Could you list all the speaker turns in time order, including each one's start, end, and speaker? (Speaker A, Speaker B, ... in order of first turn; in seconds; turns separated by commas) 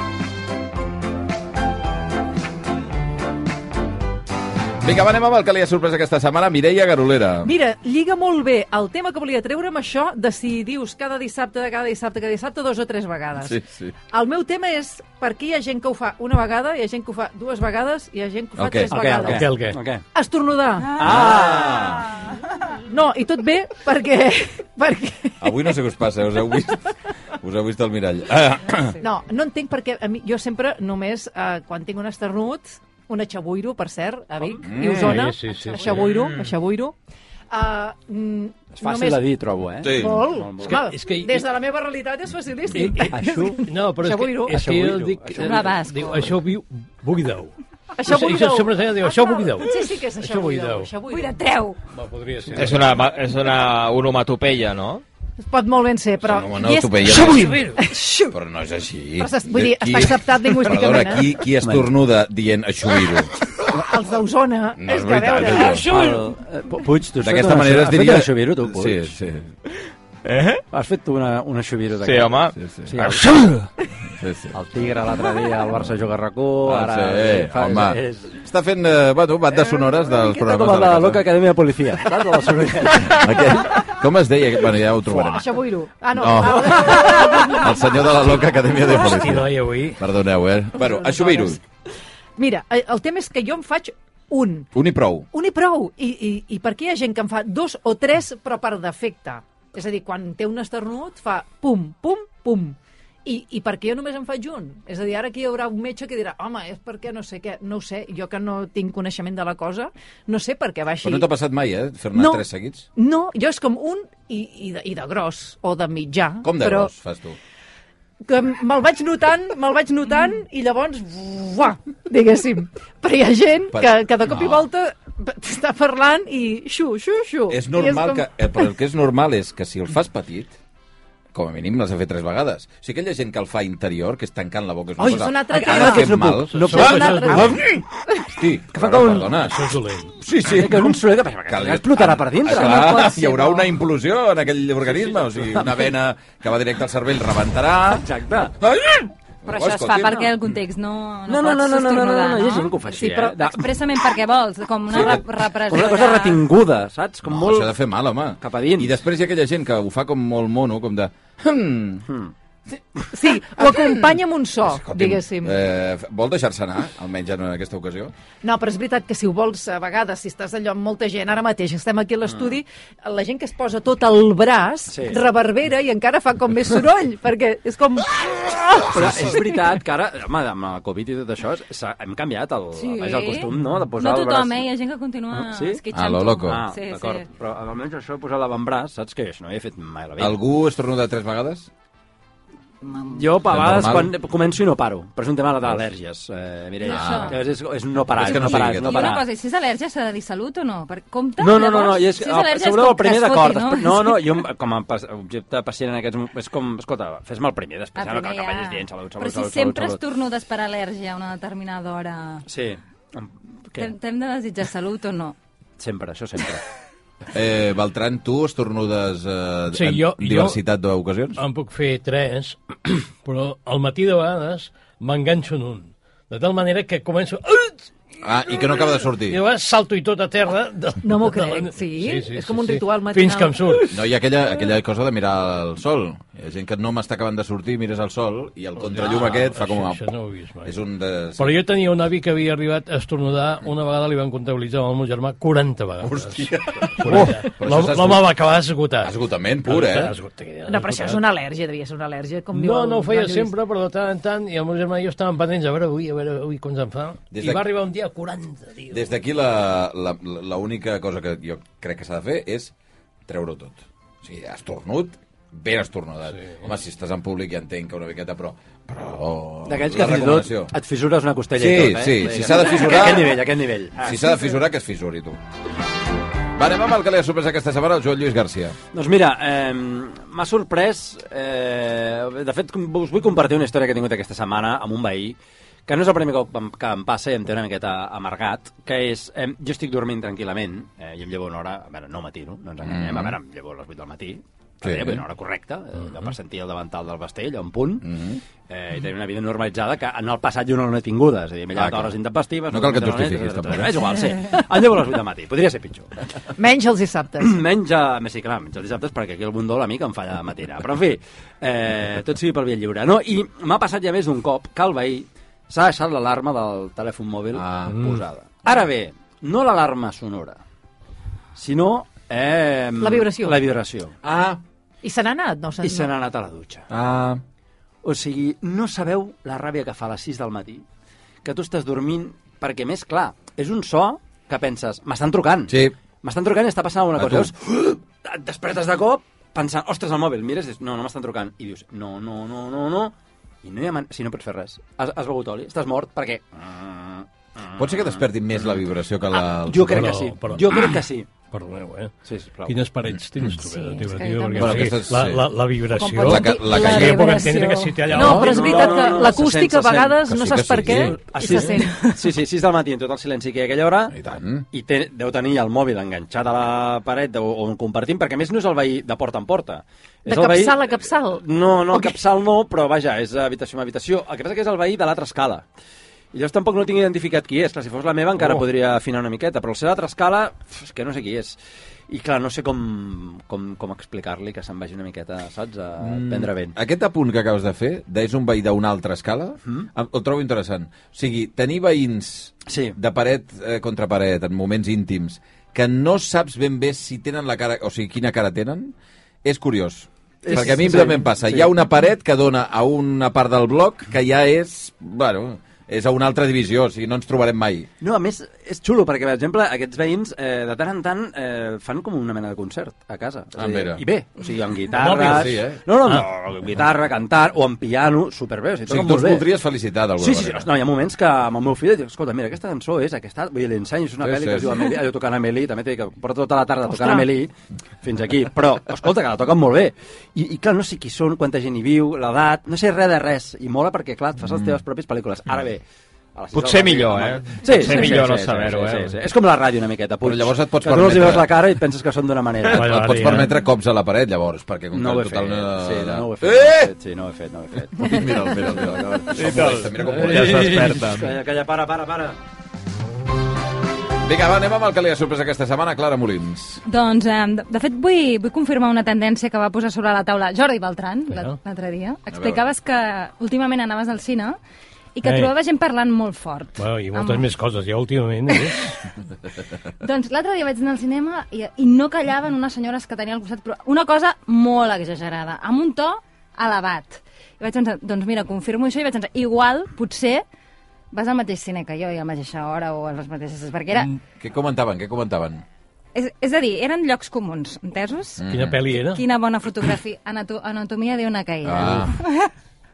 Speaker A: 4.8-7.5, Speaker B: 7.4-13.6, Speaker A: 13.4-13.9, Speaker B: 14.1-19.6, Speaker A: 18.6-18.9, Speaker C: 18.9-20.0, Speaker D: 19.2-19.8, Speaker B: 20.1-21.0, Speaker C: 20.9-22.0, Speaker A: 21.0-22.1, Speaker B: 22.9-25.7, Speaker A: 25.4-29.0, Speaker B: 29.0-36.9, Speaker A: 34.6-35.2, Speaker D: 34.8-36.0, Speaker B: 37.5-39.2, Speaker C: 38.8-40.8, Speaker A: 39.8-40.3, Speaker B: 39.9-44.6, Speaker D: 40.7-41.4, Speaker D: 42.8-47.5, Speaker C: 43.1-43.6, Speaker C: 44.5-45.8, Speaker E: 45.4-46.3, Speaker B: 48.0-51.4, Speaker D: 48.0-50.9, Speaker E: 51.1-51.8, Speaker D: 51.9-53.0, Speaker F: 52.5-55.0, Speaker B: 55.4-58.4, Speaker A: 56.2-57.7, Speaker D: 57.3-57.8, Speaker A: 58.3-63.4, Speaker B: 59.2-61.3, Speaker C: 61.6-61.9, Speaker B: 63.6-65.9, Speaker A: 64.8-65.9, Speaker D: 65.8-66.2, Speaker C: 65.8-69.1, Speaker A: 67.2-69.5, Speaker F: 70.2-70.6, Speaker C: 70.7-73.6, Speaker F: 72.0-72.5, Speaker A: 72.6-73.0, Speaker A: 74.2-74.6, Speaker C: 74.5-78.4, Speaker A: 76.7-81.2, Speaker C: 80.1-83.4, Speaker A: 82.9-85.5, Speaker B: 85.2-87.8, Speaker A: 86.1-91.6, Speaker D: 89.0-90.0, Speaker B: 90.8-91.6, Speaker B: 92.4-94.7, Speaker A: 94.7-95.3, Speaker B: 95.3-111.3, Speaker A: 111.0-112.9, Speaker B: 112.1-112.4, Speaker B: 112.9-116.9, Speaker A: 116.4-117.4, Speaker B: 118.2-128.2, Speaker A: 123.7-124.7, Speaker A: 127.5-130.6, Speaker A: 131.3-148.1, Speaker B: 135.0-137.6, Speaker C: 135.5-137.8, Speaker D: 136.4-137.6, Speaker C: 138.7-139.3, Speaker D: 139.1-140.1, Speaker C: 140.5-143.5, Speaker C: 144.9-145.9, Speaker C: 147.9-148.6, Speaker A: 148.6-150.3, Speaker E: 149.4-156.4, Speaker C: 151.3-153.8, Speaker A: 154.9-155.2, Speaker C: 154.9-157.7, Speaker A: 157.2-162.1, Speaker C: 158.4-159.0, Speaker B: 163.1-165.6, Speaker A: 163.6-168.1, Speaker B: 168.4-179.4, Speaker C: 174.9-175.2, Speaker C: 178.9-184.7, Speaker A: 178.9-179.3, Speaker E: 182.8-187.3, Speaker C: 185.3-185.8, Speaker A: 185.9-186.6, Speaker C: 186.4-190.4, Speaker A: 190.2-191.7, Speaker E: 192.8-193.3, Speaker C: 193.1-199.2, Speaker A: 193.4-194.1, Speaker E: 196.8-197.4, Speaker A: 196.9-197.4, Speaker A: 198.1-199.2, Speaker E: 198.2-204.2, Speaker C: 201.4-210.0, Speaker E: 208.0-212.4, Speaker C: 212.5-213.9, Speaker E: 213.8-215.4, Speaker C: 215.8-216.6, Speaker A: 217.3-221.4, Speaker D: 219.7-220.6, Speaker D: 221.4-227.9, Speaker A: 228.2-229.4, Speaker D: 229.2-234.0, Speaker B: 231.0-233.9, Speaker A: 233.9-240.0, Speaker D: 238.8-240.7, Speaker A: 240.6-241.6, Speaker D: 241.4-249.1, Speaker A: 246.0-248.3, Speaker A: 249.0-250.1, Speaker D: 249.7-251.2, Speaker B: 250.7-253.5, Speaker D: 252.5-259.1, Speaker A: 257.3-257.7, Speaker A: 258.9-262.7, Speaker A: 263.3-270.7, Speaker C: 269.7-274.2, Speaker A: 271.5-273.4, Speaker A: 274.0-275.4, Speaker A: 276.6-278.8, Speaker C: 278.9-298.1, Speaker A: 292.9-293.4, Speaker A: 294.8-295.2, Speaker A: 298.0-298.4, Speaker C: 298.7-306.1, Speaker A: 301.7-302.1, Speaker A: 302.7-304.0, Speaker B: 306.6-307.6, Speaker C: 307.4-320.6, Speaker A: 317.5-318.1, Speaker D: 317.9-318.2, Speaker C: 321.6-324.1, Speaker B: 323.0-323.6, Speaker A: 324.2-324.6, Speaker B: 325.0-326.1, Speaker C: 325.8-326.9, Speaker A: 326.9-327.4, Speaker C: 328.0-330.9, Speaker C: 331.4-348.8, Speaker A: 335.7-335.9, Speaker A: 337.1-337.5, Speaker A: 347.8-350.2, Speaker C: 349.7-351.3, Speaker D: 349.9-350.7, Speaker D: 351.5-352.1, Speaker C: 352.3-352.8, Speaker D: 352.6-358.9, Speaker E: 353.6-354.9, Speaker A: 354.6-355.5, Speaker E: 356.0-357.9, Speaker A: 356.2-357.4, Speaker B: 356.3-362.1, Speaker A: 358.1-358.8, Speaker C: 358.3-360.2, Speaker A: 360.2-361.1, Speaker C: 360.9-364.1, Speaker A: 364.1-364.6, Speaker C: 364.7-375.6, Speaker B: 370.3-372.1, Speaker C: 376.3-381.6, Speaker C: 382.1-386.8, Speaker A: 386.0-407.9, Speaker C: 392.7-393.0, Speaker C: 400.4-401.7, Speaker C: 408.0-419.5, Speaker A: 413.6-414.0, Speaker D: 414.9-416.2, Speaker A: 415.1-415.8, Speaker A: 418.9-420.7, Speaker C: 420.2-427.5, Speaker A: 424.2-424.8, Speaker B: 426.9-427.3, Speaker C: 428.0-435.8, Speaker C: 436.4-443.1, Speaker F: 436.5-439.1, Speaker A: 440.2-441.6, Speaker D: 442.7-443.5, Speaker A: 442.7-446.9, Speaker C: 444.9-448.7, Speaker A: 448.0-451.0, Speaker F: 449.4-451.3, Speaker C: 450.0-452.4, Speaker A: 454.2-456.8, Speaker E: 456.9-464.6, Speaker D: 461.3-461.6, Speaker A: 462.3-462.6, Speaker E: 465.1-467.5, Speaker D: 465.2-465.5, Speaker D: 466.8-468.9, Speaker E: 470.0-480.4, Speaker E: 481.1-484.1, Speaker A: 484.4-485.6, Speaker E: 486.1-488.4, Speaker A: 488.4-488.8, Speaker D: 488.5-489.2, Speaker E: 489.0-492.5, Speaker A: 491.6-492.2